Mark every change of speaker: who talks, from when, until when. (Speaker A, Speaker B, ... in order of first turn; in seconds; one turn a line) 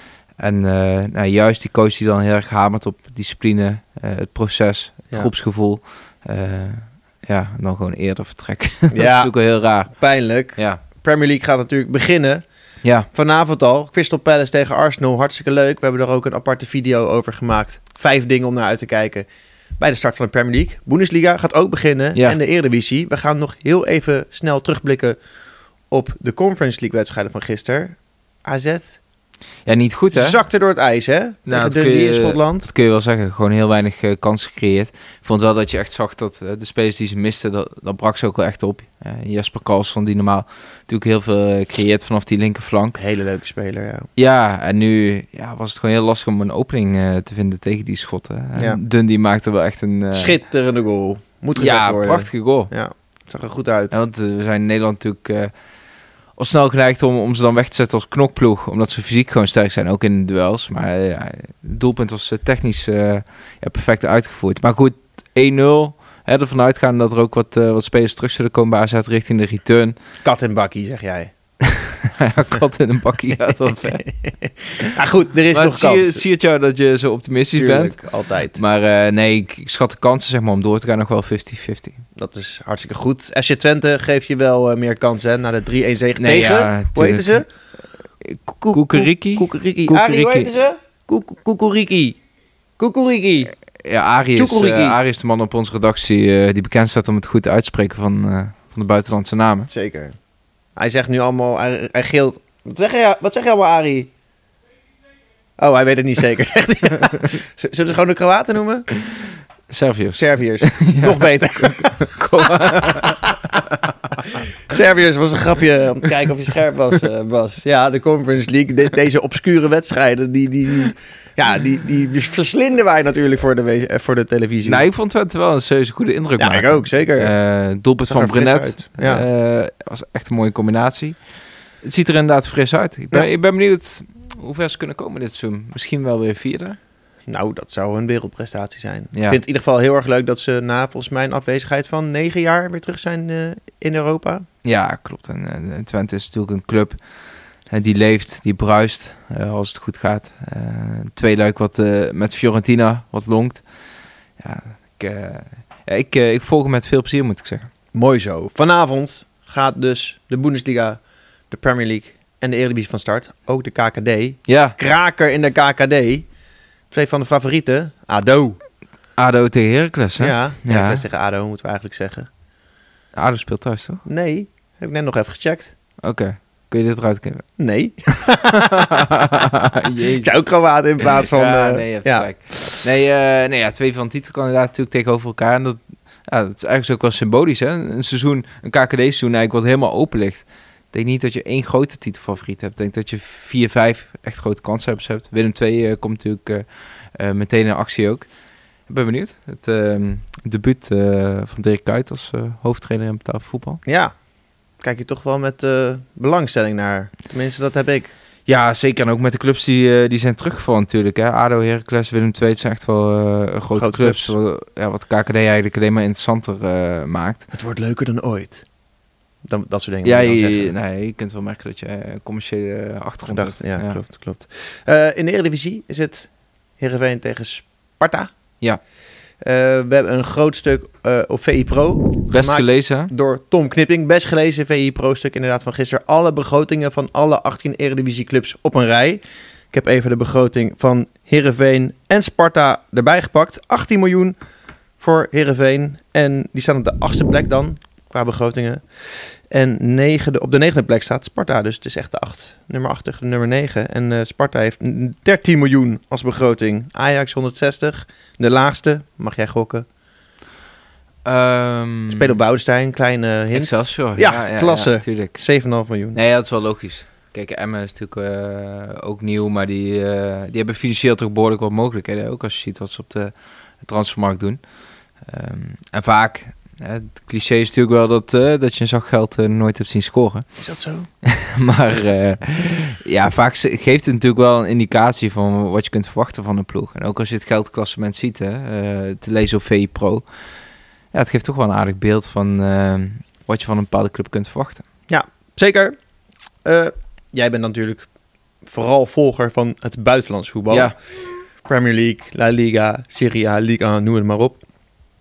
Speaker A: 0.4-10.0
Speaker B: 8.9-12.4
Speaker A: 10.6-10.8
Speaker A: 12.8-13.1
Speaker B: 13.1-19.3
Speaker B: 19.8-25.2
Speaker B: 25.9-29.0
Speaker A: 29.7-30.4
Speaker B: 30.1-32.7
Speaker A: 31.5-43.0
Speaker B: 43.0-44.1
Speaker A: 44.2-50.4
Speaker B: 48.6-48.8
Speaker B: 50.1-54.0
Speaker A: 51.5-52.7
Speaker A: 53.9-55.5
Speaker A: 56.4-70.0
Speaker B: 70.2-71.3
Speaker A: 72.1-74.0
Speaker B: 73.8-76.2
Speaker A: 75.5-78.0
Speaker B: 77.6-78.6
Speaker A: 78.5-82.0
Speaker B: 82.2-87.5
Speaker A: 86.2-87.4
Speaker A: 88.2-90.5
Speaker B: 88.6-92.2
Speaker B: 92.8-93.5
Speaker A: 93.8-99.7
Speaker B: 94.3-95.0
Speaker B: 99.7-100.2
Speaker B: 100.8-104.1
Speaker B: 105.6-108.9
Speaker A: 109.7-114.4
Speaker B: 110.2-113.2
Speaker B: 114.7-124.9
Speaker A: 124.7-131.2
Speaker B: 126.4-127.3
Speaker B: 128.1-129.3
Speaker A: 131.8-136.8
Speaker B: 137.3-144.4
Speaker A: 139.1-139.4
Speaker A: 144.6-147.0
Speaker A: 147.7-153.7
Speaker A: 154.4-157.7
Speaker B: 157.9-166.3
Speaker A: 164.5-164.8
Speaker B: 166.9-168.6
Speaker A: 169.2-171.0
Speaker B: 170.2-172.3
Speaker A: 173.2-174.0
Speaker B: 174.1-175.7
Speaker A: 176.0-177.5
Speaker B: 177.6-182.8
Speaker A: 178.7-180.3
Speaker A: 181.2-198.3
Speaker A: 198.9-203.8
Speaker B: 203.9-204.1
Speaker B: 204.8-208.1
Speaker A: 208.5-217.5
Speaker B: 213.8-214.3
Speaker B: 217.5-218.6
Speaker B: 219.4-220.7
Speaker A: 220.0-224.0
Speaker B: 223.3-228.3
Speaker B: 229.4-244.4
Speaker A: 232.3-233.1
Speaker B: 245.0-259.9
Speaker A: 261.2-262.4
Speaker B: 262.1-266.2
Speaker A: 263.5-265.4
Speaker A: 266.1-274.6
Speaker A: 275.2-280.5
Speaker B: 280.6-281.1
Speaker A: 281.2-290.3
Speaker A: 291.1-294.9
Speaker B: 295.1-296.0
Speaker B: 296.6-298.1
Speaker B: 298.6-300.9
Speaker B: 301.6-304.6